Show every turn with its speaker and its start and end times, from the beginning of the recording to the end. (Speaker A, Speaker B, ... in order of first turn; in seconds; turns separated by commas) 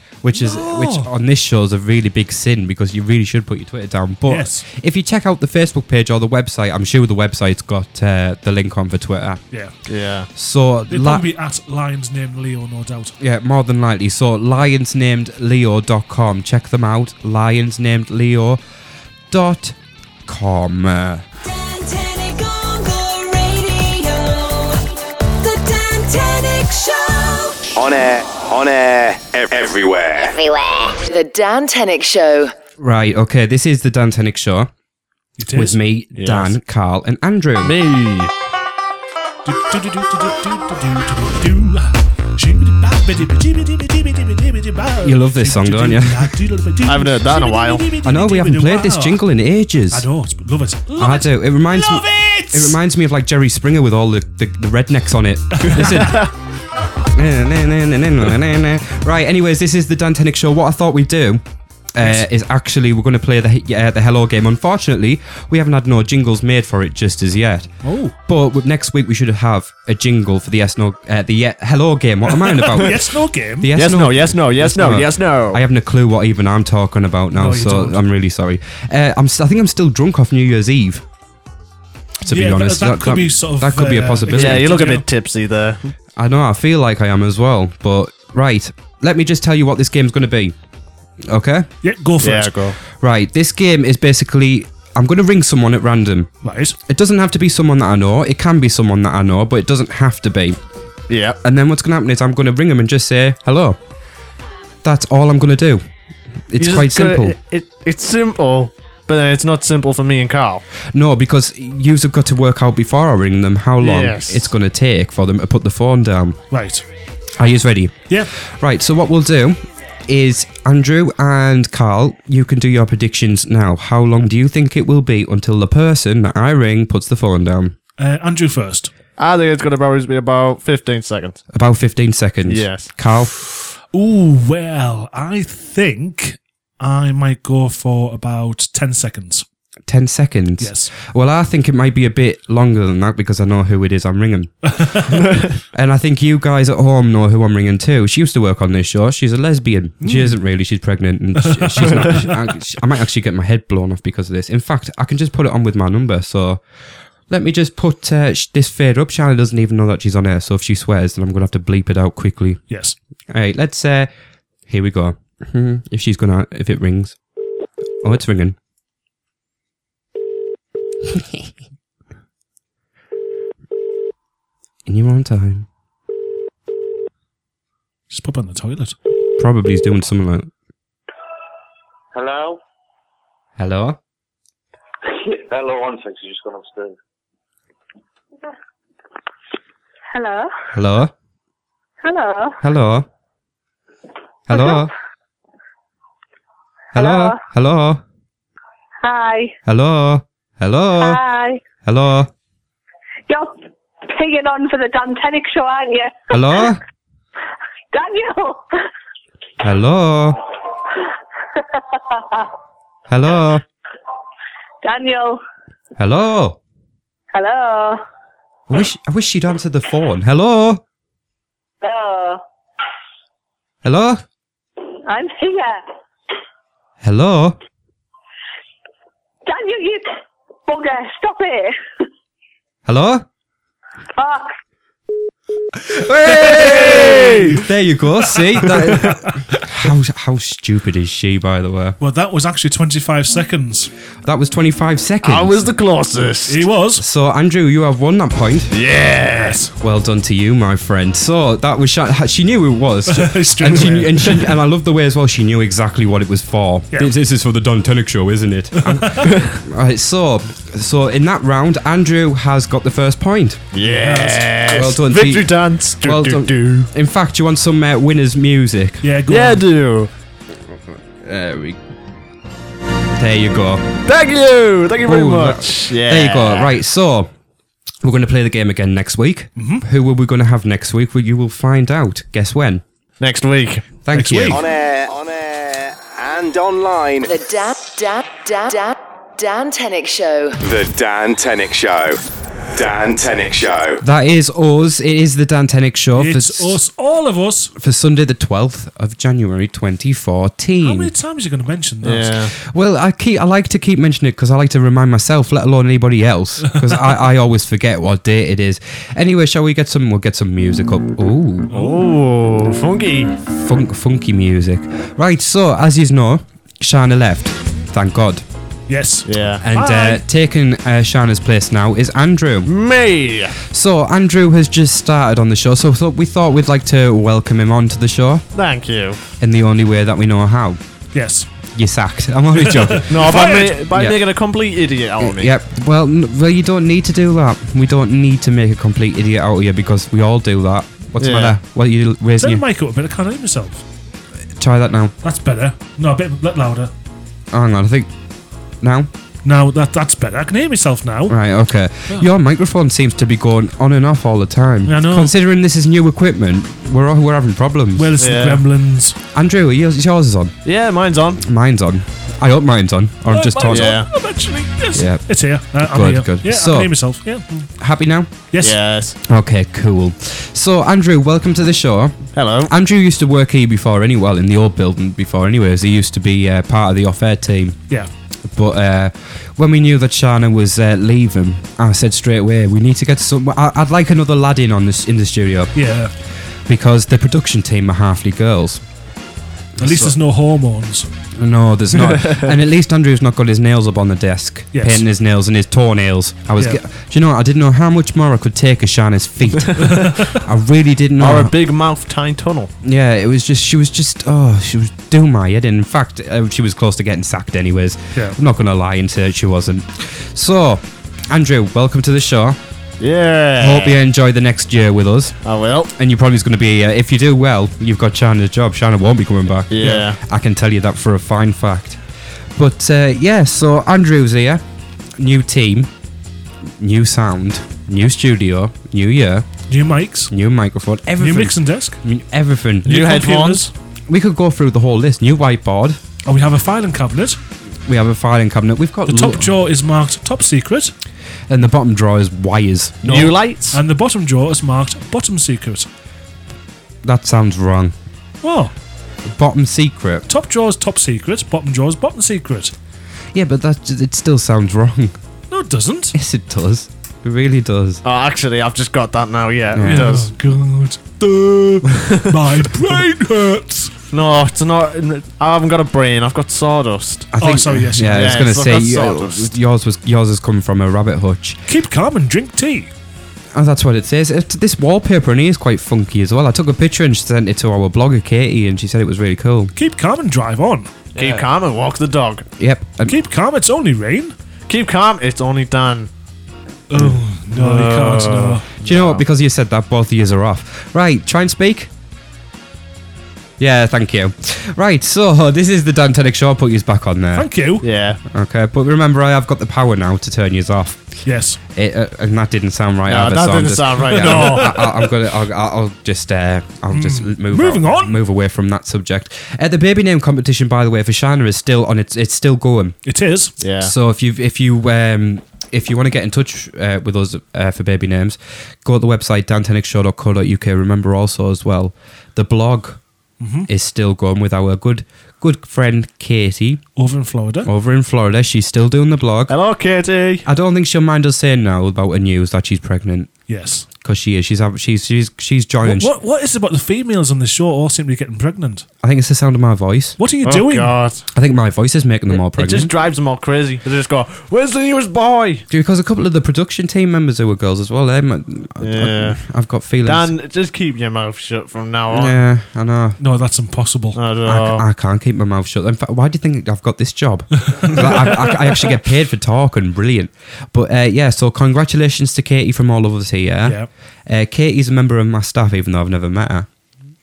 Speaker A: 0.2-9.4, Speaker B: 0.3-1.1, Speaker B: 4.3-4.7, Speaker C: 9.9-10.3, Speaker A: 10.3-11.3, Speaker B: 10.9-13.2, Speaker A: 13.2-18.6, Speaker A: 19.3-21.2, Speaker D: 21.4-27.7, Speaker E: 27.8-30.4, Speaker D: 30.2-31.0, Speaker F: 31.1-32.5, Speaker A: 32.8-34.7, Speaker B: 35.4-35.8, Speaker A: 35.5-37.8, Speaker C: 36.1-36.5, Speaker C: 37.6-38.3, Speaker B: 39.5-49.2, Speaker A: 45.0-46.4, Speaker C: 46.9-47.9, Speaker A: 48.0-50.1, Speaker B: 49.9-52.8, Speaker A: 51.0-56.3, Speaker B: 55.6-56.2, Speaker C: 55.7-56.3, Speaker A: 57.1-61.4, Speaker A: 61.9-67.7, Speaker B: 62.0-62.2, Speaker B: 67.8-68.2, Speaker A: 68.3-81.0, Speaker B: 72.4-73.7, Speaker C: 73.8-75.6, Speaker B: 77.3-78.0, Speaker A: 82.2-84.7, Speaker B: 82.3-85.1, Speaker C: 84.3-85.9, Speaker A: 86.2-90.5, Speaker A: 91.3-91.7, Speaker B: 91.8-92.5, Speaker C: 92.2-92.8, Speaker A: 93.0-96.3, Speaker B: 96.4-96.8, Speaker A: 96.9-100.6, Speaker C: 101.1-101.4, Speaker A: 101.4-103.8, Speaker A: 104.8-105.8, Speaker A: 106.5-107.4, Speaker C: 106.6-110.6, Speaker A: 110.9-116.4, Speaker C: 113.8-114.5, Speaker B: 116.5-116.8, Speaker A: 117.4-127.8, Speaker B: 128.0-128.9, Speaker C: 129.2-131.4, Speaker A: 131.5-133.3, Speaker C: 132.4-132.9, Speaker B: 133.4-139.4, Speaker A: 139.9-144.5, Speaker B: 140.6-140.9, Speaker B: 144.7-145.2, Speaker A: 145.7-156.6, Speaker B: 150.0-150.4, Speaker B: 151.4-152.4, Speaker A: 157.3-162.6, Speaker B: 162.7-163.0, Speaker A: 163.3-164.1, Speaker A: 164.7-167.2, Speaker A: 168.0-168.6, Speaker A: 174.9-175.7, Speaker B: 178.1-179.0, Speaker A: 179.4-180.5, Speaker G: 182.1-182.6, Speaker A: 183.6-184.0, Speaker G: 185.1-187.0, Speaker H: 190.1-190.5, Speaker A: 190.7-191.1, Speaker H: 192.0-192.6, Speaker A: 192.6-193.1, Speaker A: 194.5-194.9, Speaker H: 194.5-194.9, Speaker A: 196.9-198.0, Speaker H: 196.9-197.4, Speaker H: 199.0-199.6, Speaker A: 199.7-201.2, Speaker H: 201.0-201.6, Speaker A: 201.8-202.3, Speaker H: 203.3-206.8, Speaker A: 206.3-206.8, Speaker H: 207.9-208.8, Speaker A: 209.6-210.4, Speaker H: 211.6-212.5, Speaker A: 213.1-213.6, Speaker H: 214.8-215.4, Speaker A: 216.0-216.6, Speaker H: 217.3-218.0, Speaker A: 218.7-220.8, Speaker H: 221.8-222.4, Speaker A: 223.8-224.2, Speaker H: 225.0-225.8, Speaker A: 227.0-227.6, Speaker H: 229.5-231.8, Speaker A: 232.9-233.3, Speaker H: 234.2-234.5, Speaker A: 235.9-242.0, Speaker B: 236.3-237.6, Speaker C: 236.7-237.5, Speaker B: 238.3-239.6, Speaker B: 242.0-243.9, Speaker A: 244.2-245.7, Speaker C: 245.2-246.6, Speaker B: 246.5-247.0, Speaker A: 247.0-248.7, Speaker C: 248.7-249.6, Speaker B: 249.3-249.7, Speaker A: 249.8-263.6, Speaker B: 253.1-254.5, Speaker B: 258.8-259.3, Speaker C: 263.7-266.9, Speaker B: 263.8-264.6, Speaker A: 264.7-269.1, Speaker B: 269.0-269.6, Speaker C: 269.3-270.1, Speaker A: 270.7-271.8, Speaker A: 273.2-273.9, Speaker C: 274.1-276.7, Speaker A: 275.0-277.3, Speaker A: 278.0-282.8, Speaker B: 279.6-279.9, Speaker C: 283.2-283.9, Speaker A: 284.1-284.6, Speaker B: 284.1-284.6, Speaker E: 284.5-287.3, Speaker F: 287.2-290.6, Speaker E: 290.6-292.2, Speaker E: 292.7-294.0, Speaker A: 294.0-296.8, Speaker B: 296.1-297.7, Speaker A: 297.8-301.1, Speaker B: 300.8-302.4, Speaker C: 302.0-302.5, Speaker A: 302.6-311.7, Speaker C: 311.7-313.3, Speaker B: 311.7-312.0, Speaker A: 313.4-318.4, Speaker B: 318.9-320.2, Speaker C: 319.3-319.6, Speaker A: 319.6-322.7, Speaker C: 322.7-323.6, Speaker A: 323.6-328.4, Speaker C: 328.5-329.2, Speaker A: 329.4-330.8, Speaker B: 331.1-331.5, Speaker A: 331.8-334.2, Speaker B: 332.5-333.9, Speaker C: 333.1-335.5, Speaker A: 335.2-342.6, Speaker C: 341.2-341.6, Speaker B: 342.4-343.8, Speaker A: 344.6-345.1, Speaker B: 345.2-346.9, Speaker A: 347.5-348.1, Speaker A: 348.8-349.1, Speaker B: 349.4-351.4, Speaker A: 351.3-358.1, Speaker B: 354.9-355.3, Speaker B: 358.0-359.2, Speaker C: 358.2-358.6, Speaker A: 359.3-360.6, Speaker C: 360.6-361.4, Speaker A: 361.4-364.0, Speaker B: 363.3-367.7, Speaker C: 363.7-364.1, Speaker A: 364.9-366.9, Speaker A: 367.8-368.3, Speaker B: 368.5-368.8, Speaker C: 368.6-369.2, Speaker A: 369.3-377.8, Speaker C: 372.3-372.7, Speaker A: 378.5-385.7, Speaker B: 385.8-386.1, Speaker A: 386.7-388.8, Speaker A: 389.8-390.1, Speaker B: 389.8-391.1, Speaker A: 391.4-401.5, Speaker B: 394.7-395.0, Speaker B: 399.8-400.4, Speaker C: 401.2-402.7, Speaker A: 402.8-412.6, Speaker C: 413.0-414.0, Speaker A: 413.6-415.4, Speaker C: 415.4-415.9, Speaker A: 416.0-422.0, Speaker C: 419.7-420.2, Speaker A: 422.6-424.6, Speaker A: 425.2-425.9, Speaker A: 426.8-429.6, Speaker B: 429.7-430.3, Speaker A: 430.3-433.0, Speaker B: 431.2-432.0, Speaker C: 432.9-433.7, Speaker B: 432.9-433.7, Speaker A: 434.1-436.0, Speaker B: 436.2-437.4, Speaker A: 437.9-439.5, Speaker B: 439.1-440.9, Speaker A: 441.5-443.3, Speaker C: 443.1-443.8, Speaker B: 443.1-445.9, Speaker A: 447.0-447.9, Speaker B: 448.4-448.7, Speaker A: 449.3-450.3, Speaker B: 450.3-452.7, Speaker A: 453.3-455.2, Speaker B: 455.5-456.2, Speaker A: 456.1-458.0, Speaker C: 458.0-460.3, Speaker A: 459.7-460.1, Speaker B: 459.8-463.9, Speaker C: 464.1-467.3, Speaker A: 467.3-471.6, Speaker B: 467.4-468.5, Speaker C: 468.1-469.5, Speaker B: 471.7-472.9, Speaker A: 473.5-479.7, Speaker B: 479.8-480.9, Speaker C: 481.2-482.5, Speaker A: 481.2-481.4, Speaker A: 482.6-483.1, Speaker B: 483.1-484.3, Speaker C: 484.7-486.1, Speaker B: 486.9-488.7, Speaker C: 487.5-489.2, Speaker A: 488.8-491.9, Speaker A: 493.6-497.5, Speaker B: 497.4-497.9, Speaker C: 497.8-498.2, Speaker A: 498.3-501.2, Speaker B: 501.3-501.6, Speaker A: 501.8-513.0, Speaker C: 503.1-504.8, Speaker B: 504.1-505.1, Speaker B: 506.9-508.1, Speaker B: 513.0-513.5, Speaker C: 513.6-513.9, Speaker A: 513.8-523.0, Speaker B: 523.4-523.7, Speaker A: 523.7-526.8, Speaker B: 527.0-527.7, Speaker A: 527.6-529.5, Speaker C: 529.5-530.5, Speaker A: 530.5-533.3, Speaker B: 533.5-533.9, Speaker A: 534.0-536.1, Speaker B: 535.8-538.9, Speaker A: 539.0-540.2, Speaker B: 540.2-541.0, Speaker C: 540.4-541.2, Speaker A: 541.3-542.9, Speaker C: 542.3-545.7, Speaker A: 545.7-550.3, Speaker C: 548.8-549.4, Speaker C: 550.0-552.4, Speaker A: 552.1-553.2, Speaker B: 553.2-554.2, Speaker C: 554.1-554.9, Speaker A: 554.5-566.7, Speaker B: 557.7-558.5